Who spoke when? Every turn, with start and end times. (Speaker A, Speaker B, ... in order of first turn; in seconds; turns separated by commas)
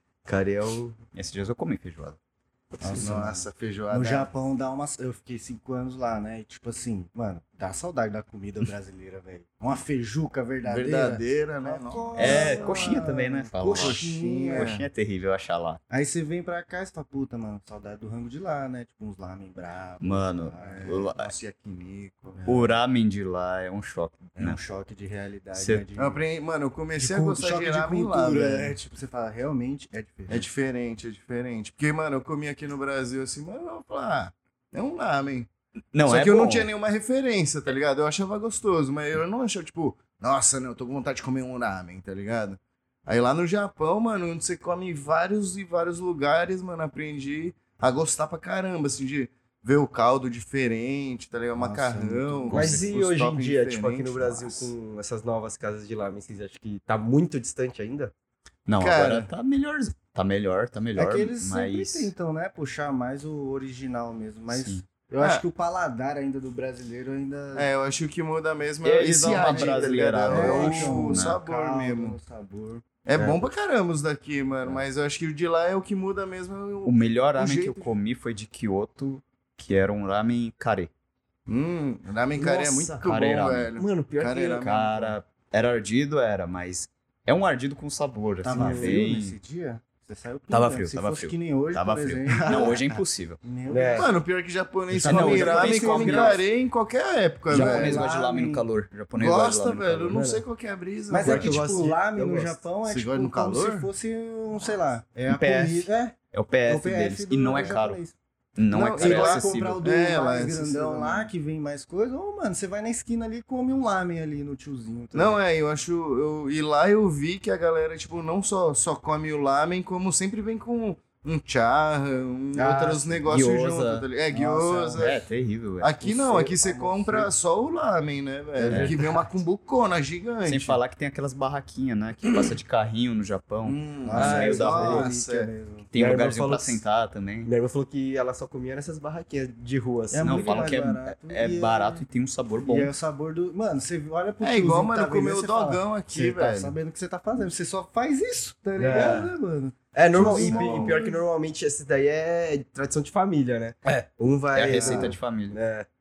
Speaker A: 0.2-1.0, Speaker B: 1.1-2.2, Speaker C: 2.8-14.7, Speaker D: 2.9-4.3, Speaker D: 10.6-13.1, Speaker B: 12.2-15.8, Speaker D: 13.6-14.8, Speaker C: 15.9-20.9, Speaker B: 20.0-21.3, Speaker D: 20.6-22.5, Speaker C: 22.4-22.7, Speaker B: 22.5-24.6, Speaker C: 24.4-26.2, Speaker B: 25.5-25.9, Speaker D: 26.0-28.7, Speaker C: 27.0-30.5, Speaker D: 30.3-35.5, Speaker B: 35.9-36.7, Speaker D: 36.0-54.7, Speaker C: 51.5-52.6, Speaker B: 52.5-52.9, Speaker A: 52.5-58.1, Speaker B: 58.7-62.1, Speaker D: 58.8-59.3, Speaker C: 61.0-67.7, Speaker B: 64.5-64.8, Speaker D: 67.5-72.2, Speaker B: 68.8-71.4, Speaker C: 69.5-72.8, Speaker D: 73.0-77.9, Speaker B: 76.8-80.9, Speaker D: 81.5-85.1, Speaker A: 82.4-83.0, Speaker B: 83.0-83.7, Speaker A: 83.8-84.7, Speaker B: 84.5-89.3, Speaker C: 88.4-92.8, Speaker A: 88.5-89.0, Speaker B: 90.5-93.4, Speaker D: 92.3-92.8, Speaker C: 93.4-94.2, Speaker A: 93.7-94.1, Speaker D: 93.9-98.1, Speaker C: 94.9-96.4, Speaker B: 95.0-96.4, Speaker C: 97.5-98.6, Speaker B: 97.5-100.2, Speaker D: 99.2-101.7, Speaker A: 100.1-100.4, Speaker C: 101.1-108.2, Speaker A: 101.2-102.6, Speaker D: 102.8-103.9, Speaker B: 105.3-108.0, Speaker B: 108.5-109.8, Speaker D: 108.7-111.3, Speaker C: 108.7-115.4, Speaker D: 115.1-125.2, Speaker C: 122.5-123.2, Speaker B: 123.3-124.0, Speaker C: 124.3-125.2, Speaker B: 125.0-125.9, Speaker D: 125.8-130.8, Speaker C: 126.0-127.3, Speaker C: 128.6-128.9, Speaker A: 128.6-129.0, Speaker B: 128.7-129.0, Speaker B: 130.4-135.1, Speaker D: 133.6-135.5, Speaker C: 134.0-135.9, Speaker A: 134.1-135.0, Speaker B: 135.9-137.5, Speaker A: 135.9-136.8, Speaker A: 137.4-140.7, Speaker C: 140.1-142.0, Speaker B: 140.2-142.9, Speaker C: 142.6-151.1, Speaker D: 144.4-146.7, Speaker A: 148.8-149.3, Speaker D: 148.9-149.2, Speaker A: 149.9-155.9, Speaker D: 150.1-151.1, Speaker B: 154.5-155.6, Speaker D: 154.8-155.1